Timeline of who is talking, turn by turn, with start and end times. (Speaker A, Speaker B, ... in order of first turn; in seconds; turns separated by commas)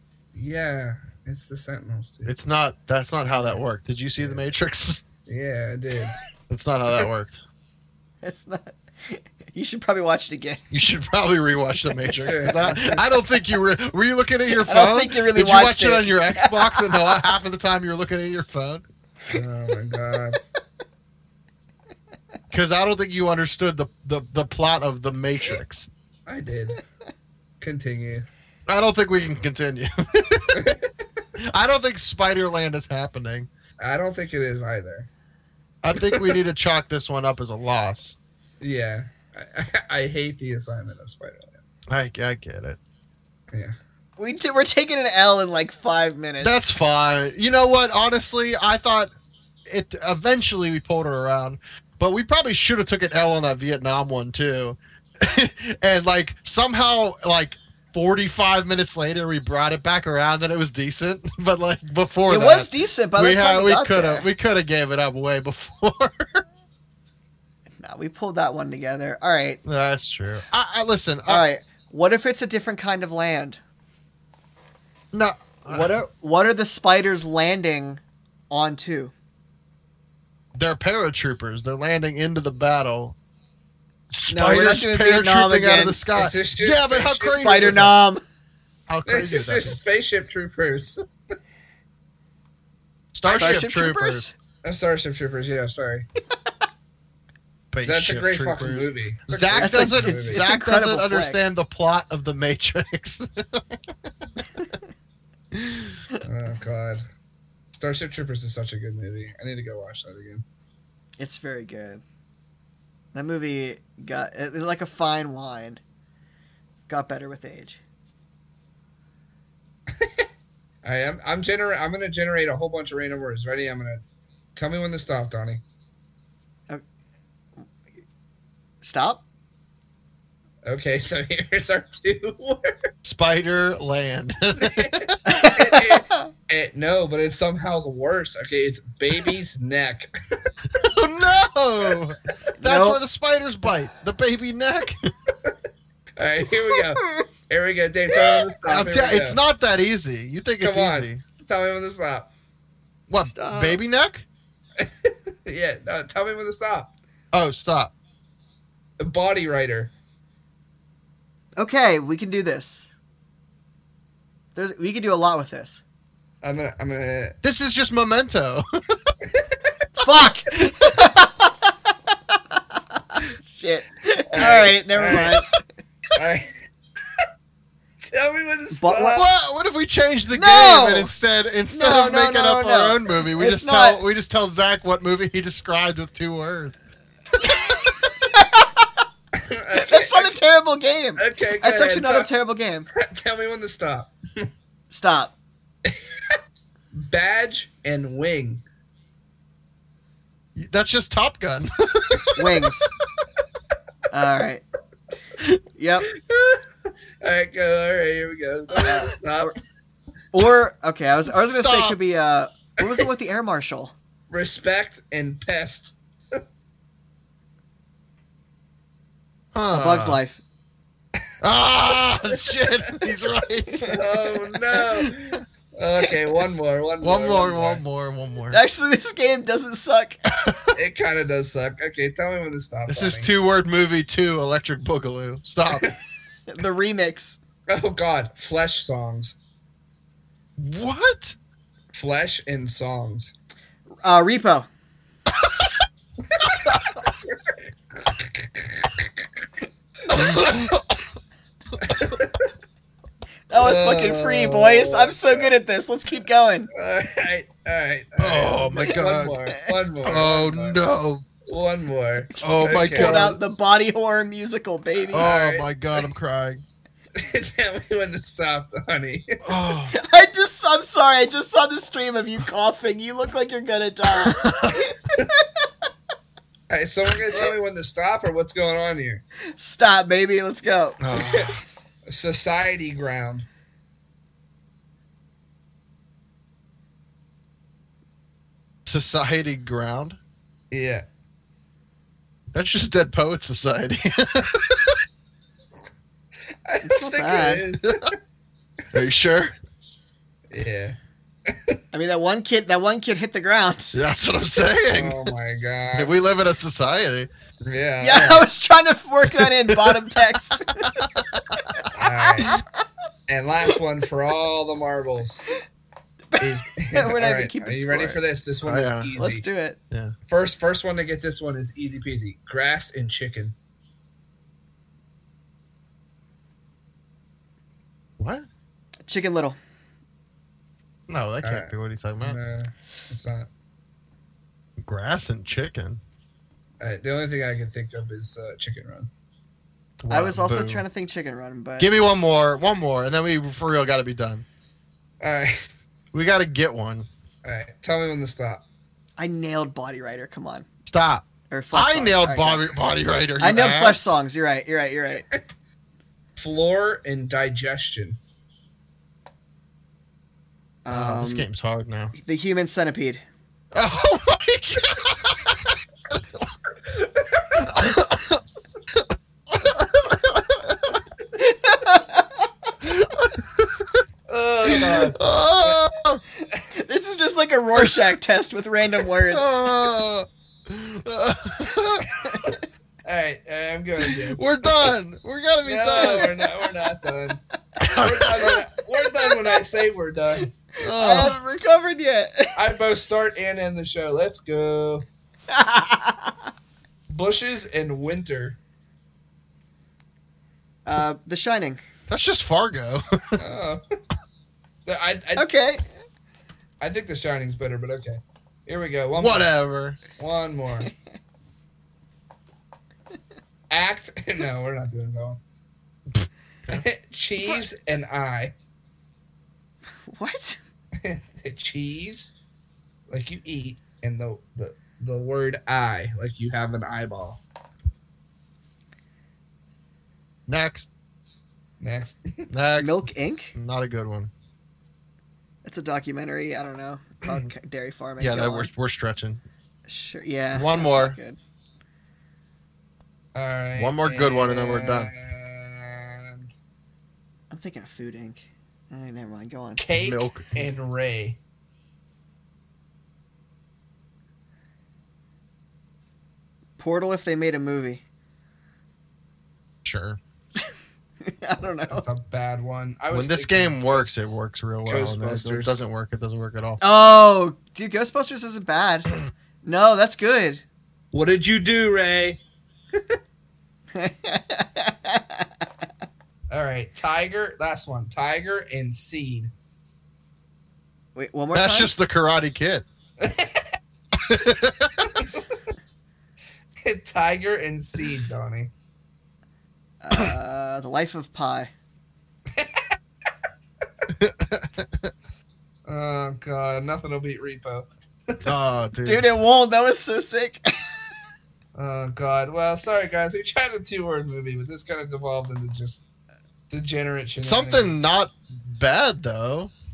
Speaker A: 0.3-2.3, Speaker B: 2.3-5.0, Speaker A: 3.3-3.6, Speaker A: 5.3-6.2, Speaker B: 6.5-7.4, Speaker C: 8.2-10.6, Speaker B: 10.7-18.8, Speaker C: 11.9-13.0, Speaker A: 12.2-13.0, Speaker C: 14.5-17.2, Speaker A: 19.3-20.4, Speaker B: 22.5-25.9, Speaker A: 26.3-26.8, Speaker A: 27.6-28.3, Speaker B: 28.7-30.7, Speaker A: 30.5-30.9, Speaker B: 31.4-33.5, Speaker A: 33.8-35.1, Speaker B: 35.8-38.2, Speaker A: 36.0-36.3, Speaker A: 38.6-41.6, Speaker B: 41.9-42.8, Speaker C: 44.2-46.7, Speaker B: 46.4-49.1, Speaker B: 49.7-66.4, Speaker C: 62.3-64.3, Speaker C: 67.8-69.6, Speaker B: 69.6-71.4, Speaker C: 71.3-73.6, Speaker B: 75.1-75.9, Speaker C: 75.7-79.1, Speaker B: 80.5-83.1, Speaker B: 84.1-88.0, Speaker C: 84.3-86.0, Speaker A: 86.1-87.8, Speaker C: 87.2-88.2, Speaker B: 88.9-89.8, Speaker A: 89.1-91.0, Speaker B: 93.1-94.3, Speaker C: 93.3-94.3, Speaker A: 94.6-96.1, Speaker B: 97.7-103.8, Speaker A: 97.8-100.4, Speaker C: 99.6-101.4, Speaker B: 105.5-106.0, Speaker A: 106.2-107.0, Speaker A: 107.7-110.4, Speaker C: 111.2-112.0, Speaker C: 113.1-115.8, Speaker C: 116.9-117.8, Speaker A: 119.9-120.3, Speaker A: 120.8-124.0, Speaker A: 124.6-125.6, Speaker C: 128.8-129.2, Speaker A: 130.7-132.9, Speaker B: 133.1-135.1, Speaker A: 134.6-140.1, Speaker C: 135.3-136.3, Speaker B: 140.7-145.1, Speaker C: 142.6-143.0, Speaker A: 146.2-149.4, Speaker C: 146.5-147.3, Speaker B: 148.6-151.2, Speaker A: 150.6-152.3, Speaker B: 153.1-154.2, Speaker C: 153.2-153.8, Speaker A: 154.8-156.9, Speaker B: 157.3-157.9, Speaker A: 159.0-159.9, Speaker C: 161.6-162.9, Speaker C: 164.6-165.8, Speaker A: 166.4-167.3, Speaker B: 167.4-168.6, Speaker A: 169.2-169.7, Speaker C: 170.0-171.7, Speaker C: 173.1-175.5, Speaker A: 174.3-175.4, Speaker B: 174.4-175.3, Speaker A: 176.1-176.6, Speaker A: 178.0-179.3, Speaker C: 178.7-179.2, Speaker B: 179.1-186.8, Speaker C: 180.3-181.1, Speaker C: 181.7-184.0, Speaker C: 187.4-188.8, Speaker A: 189.3-190.3, Speaker C: 189.8-192.9, Speaker A: 191.2-192.3, Speaker A: 192.9-194.5, Speaker C: 194.9-195.3, Speaker A: 195.8-196.3, Speaker A: 196.9-198.6, Speaker B: 200.6-202.7, Speaker C: 202.3-202.9, Speaker C: 204.1-204.6, Speaker C: 205.8-206.1, Speaker A: 206.1-206.6, Speaker A: 207.2-209.5, Speaker C: 208.7-209.5, Speaker C: 210.3-213.9, Speaker B: 211.3-212.0, Speaker A: 214.3-216.4, Speaker B: 219.6-220.2, Speaker C: 219.7-220.4, Speaker B: 221.4-223.9, Speaker A: 222.3-222.9, Speaker C: 223.7-224.4, Speaker A: 223.8-227.8, Speaker B: 227.0-228.6, Speaker C: 228.5-230.3, Speaker B: 230.4-230.7, Speaker A: 230.7-233.3, Speaker B: 232.9-235.9, Speaker A: 235.7-235.9, Speaker C: 236.5-237.4, Speaker A: 237.7-239.3, Speaker B: 240.6-241.3, Speaker A: 241.9-243.3, Speaker C: 244.0-244.7, Speaker A: 246.3-249.4, Speaker A: 250.1-250.6, Speaker B: 250.1-251.0, Speaker A: 251.8-252.5, Speaker C: 253.5-256.7, Speaker A: 253.6-255.5, Speaker A: 256.7-260.8, Speaker B: 258.2-259.4, Speaker B: 260.1-261.2, Speaker A: 261.4-263.4, Speaker B: 262.4-263.4, Speaker C: 262.4-265.3, Speaker B: 265.1-266.6, Speaker A: 265.2-265.7, Speaker A: 267.1-269.4, Speaker B: 269.4-269.9, Speaker C: 269.9-274.9, Speaker B: 274.1-274.9, Speaker A: 276.7-279.2, Speaker C: 279.5-281.4, Speaker A: 281.0-283.4, Speaker B: 288.9-290.2, Speaker A: 290.7-291.1, Speaker B: 292.5-295.0, Speaker A: 296.6-298.1, Speaker C: 296.8-297.7, Speaker B: 298.9-299.5, Speaker A: 300.5-301.8, Speaker C: 301.9-304.0, Speaker B: 303.9-305.3, Speaker A: 304.9-306.2, Speaker B: 305.9-307.3, Speaker A: 307.6-308.5, Speaker C: 308.0-310.9, Speaker B: 309.3-311.8, Speaker C: 311.8-312.6, Speaker A: 311.9-312.6, Speaker A: 313.3-315.4, Speaker C: 316.3-318.2, Speaker A: 316.4-319.4, Speaker B: 318.7-319.1, Speaker C: 319.1-319.8, Speaker A: 320.3-323.6, Speaker B: 328.2-328.5, Speaker C: 329.1-329.6, Speaker B: 331.1-332.4, Speaker A: 331.4-333.5, Speaker B: 334.8-336.0, Speaker A: 336.8-339.1, Speaker B: 340.0-340.8, Speaker C: 340.1-341.9, Speaker B: 341.8-344.4, Speaker A: 345.2-345.7, Speaker B: 346.1-347.1, Speaker A: 347.4-348.6, Speaker C: 349.2-350.6, Speaker B: 350.9-354.0, Speaker C: 351.5-352.7, Speaker C: 353.4-355.3, Speaker A: 356.4-358.2, Speaker C: 360.9-361.5, Speaker B: 360.9-362.1, Speaker C: 362.1-363.2, Speaker B: 363.7-366.4, Speaker A: 366.8-367.7, Speaker B: 367.6-368.4, Speaker B: 368.9-371.0, Speaker C: 371.4-372.3, Speaker B: 372.8-374.0, Speaker A: 374.3-375.8, Speaker B: 374.7-376.2, Speaker C: 376.7-379.6, Speaker B: 377.8-378.0, Speaker B: 379.3-382.1, Speaker A: 382.1-384.4, Speaker B: 384.3-386.3, Speaker A: 385.6-387.4, Speaker B: 387.8-388.6, Speaker A: 387.9-390.5, Speaker C: 390.8-392.6, Speaker B: 390.8-391.4, Speaker A: 392.6-395.1, Speaker C: 395.5-396.3, Speaker A: 397.1-398.6, Speaker C: 400.9-401.8, Speaker B: 402.1-403.4, Speaker A: 403.4-403.8, Speaker A: 404.9-405.5, Speaker C: 405.4-405.9, Speaker A: 406.8-409.5, Speaker B: 409.1-410.0, Speaker A: 410.2-410.9, Speaker A: 413.7-415.4, Speaker B: 416.1-416.9, Speaker A: 416.7-418.5, Speaker C: 420.1-420.6, Speaker A: 421.0-422.3, Speaker A: 423.1-427.4, Speaker B: 430.5-430.9, Speaker A: 431.8-432.5, Speaker B: 432.5-434.3, Speaker C: 432.8-433.6, Speaker C: 435.6-438.7, Speaker B: 437.2-437.5, Speaker B: 438.2-439.4, Speaker C: 439.9-441.4, Speaker B: 440.5-441.1, Speaker A: 443.4-446.5, Speaker B: 443.8-445.1, Speaker C: 447.5-449.8, Speaker A: 449.8-451.4, Speaker B: 449.9-450.7, Speaker C: 456.8-458.0, Speaker B: 459.9-460.2, Speaker C: 461.2-462.1, Speaker A: 461.9-464.1, Speaker B: 463.1-466.8, Speaker A: 464.9-465.8, Speaker C: 466.8-470.6, Speaker A: 471.1-472.4, Speaker C: 473.9-475.4, Speaker A: 476.5-479.5, Speaker C: 481.1-481.9, Speaker B: 481.5-482.9, Speaker A: 483.2-483.8, Speaker B: 484.1-485.1, Speaker A: 485.0-485.6, Speaker A: 486.8-488.7, Speaker C: 490.0-491.7, Speaker A: 492.6-492.9, Speaker B: 494.1-495.1, Speaker A: 495.9-498.4, Speaker B: 498.4-499.3, Speaker C: 499.1-501.0, Speaker A: 501.7-506.0, Speaker A: 506.7-507.9, Speaker B: 507.4-509.7